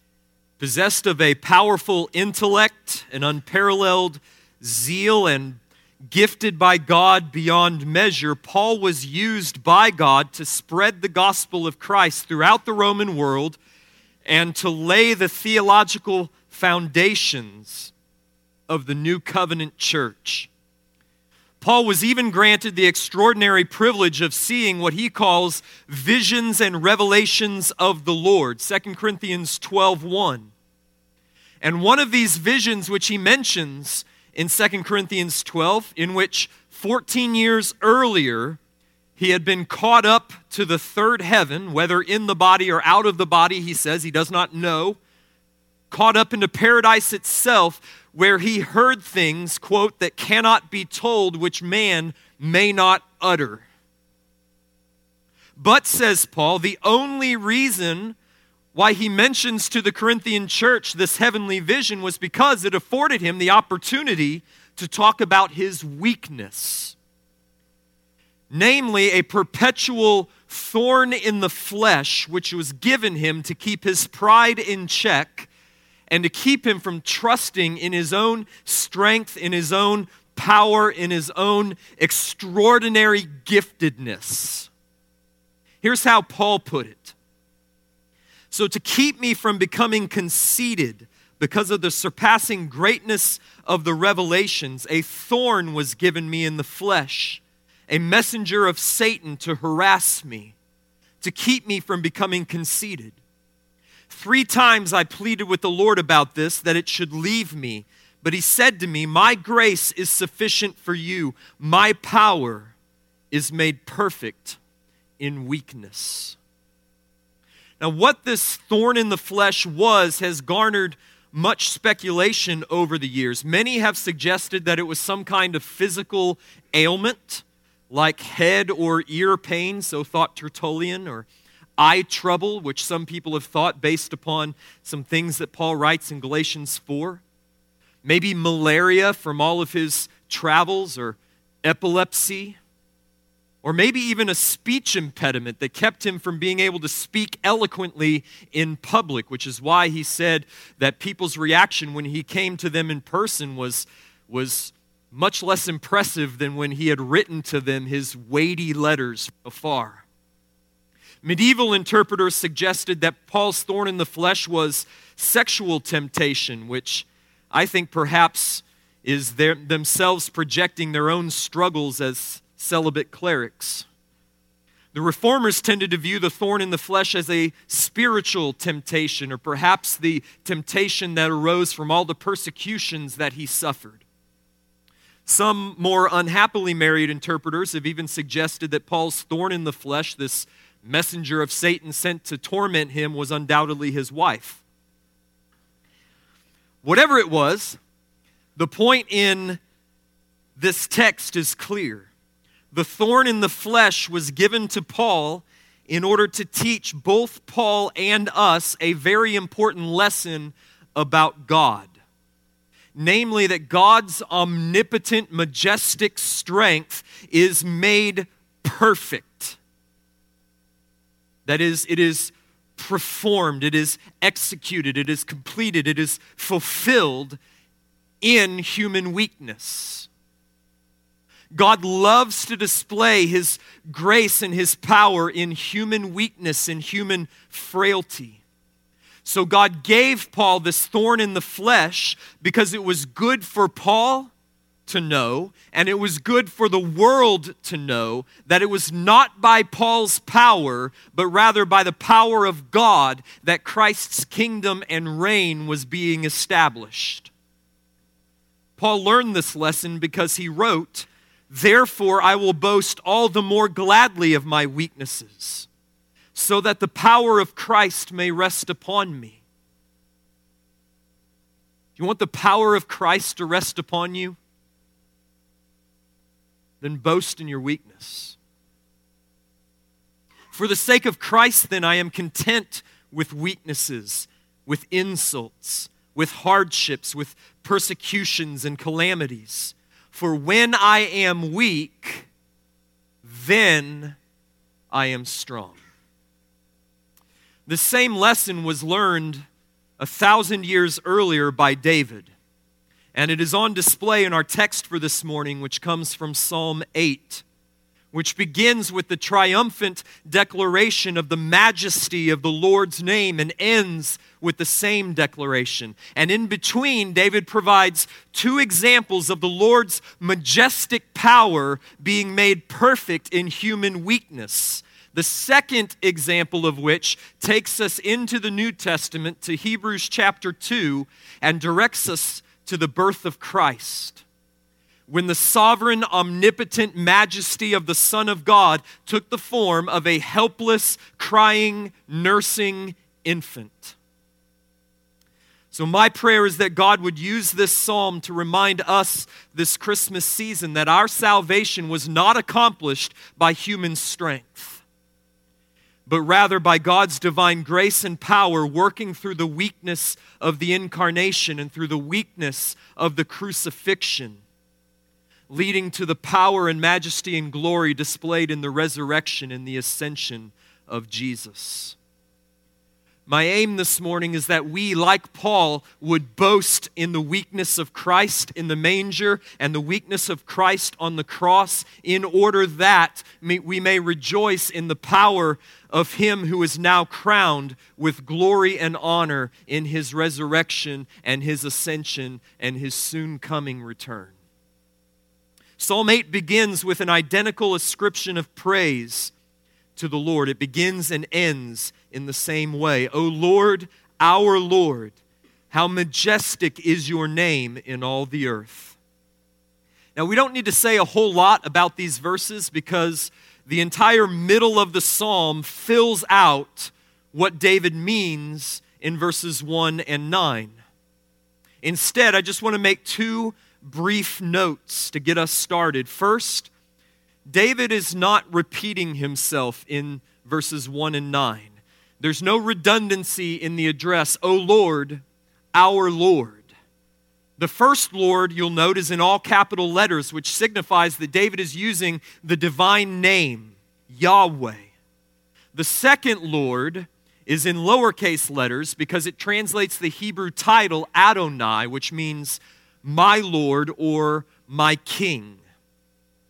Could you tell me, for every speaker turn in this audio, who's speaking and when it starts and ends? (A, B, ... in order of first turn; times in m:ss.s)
0:00.6-0:05.6 A
0:06.1-0:13.6 A
0:14.2-0:17.9 A
0:18.7-0:20.5 A
0:21.6-0:30.5 A
0:31.6-0:38.6 A
0:39.2-0:45.0 A
0:45.9-0:53.6 A
0:55.6-0:58.2 A
0:58.7-1:07.0 A
1:08.5-1:15.5 A
1:16.1-1:24.7 A
1:25.8-1:27.2 A
1:28.5-1:40.6 A
1:41.2-1:43.2 A
1:44.1-1:52.7 A
1:53.3-1:54.6 A
1:55.2-1:56.4 A
1:57.8-2:11.3 A
2:11.8-2:17.2 A
2:18.0-2:22.6 A
2:23.6-2:40.0 A
2:41.2-2:53.9 A
2:54.9-3:04.0 A
3:05.3-3:14.6 A
3:16.8-3:17.8 A
3:18.6-3:19.6 A
3:20.6-3:22.1 A
3:22.7-3:31.9 A
3:33.0-3:39.6 A
3:41.5-3:47.4 A
3:48.2-3:50.1 A
3:51.5-3:58.4 A
3:59.2-4:04.3 A
4:04.9-4:17.3 A
4:18.8-4:25.7 A
4:26.4-4:29.4 A
4:32.0-4:34.4 A
4:36.8-4:38.4 A
4:40.5-4:52.3 A
4:53.2-4:54.2 A
4:54.9-4:55.8 A
4:57.7-4:59.4 A
5:00.0-5:02.3 A
5:03.1-5:07.4 A
5:08.1-5:34.2 A
5:35.1-5:44.0 A
5:45.7-5:54.8 A
5:56.1-6:04.4 A
6:05.5-6:12.0 A
6:13.3-6:34.3 A
6:35.8-6:39.3 A
6:40.0-6:45.1 A
6:45.7-6:49.0 A
6:50.2-7:00.8 A
7:01.8-7:06.7 A
7:07.5-7:15.2 A
7:15.7-7:16.6 A
7:17.6-7:24.9 A
7:25.7-7:35.6 A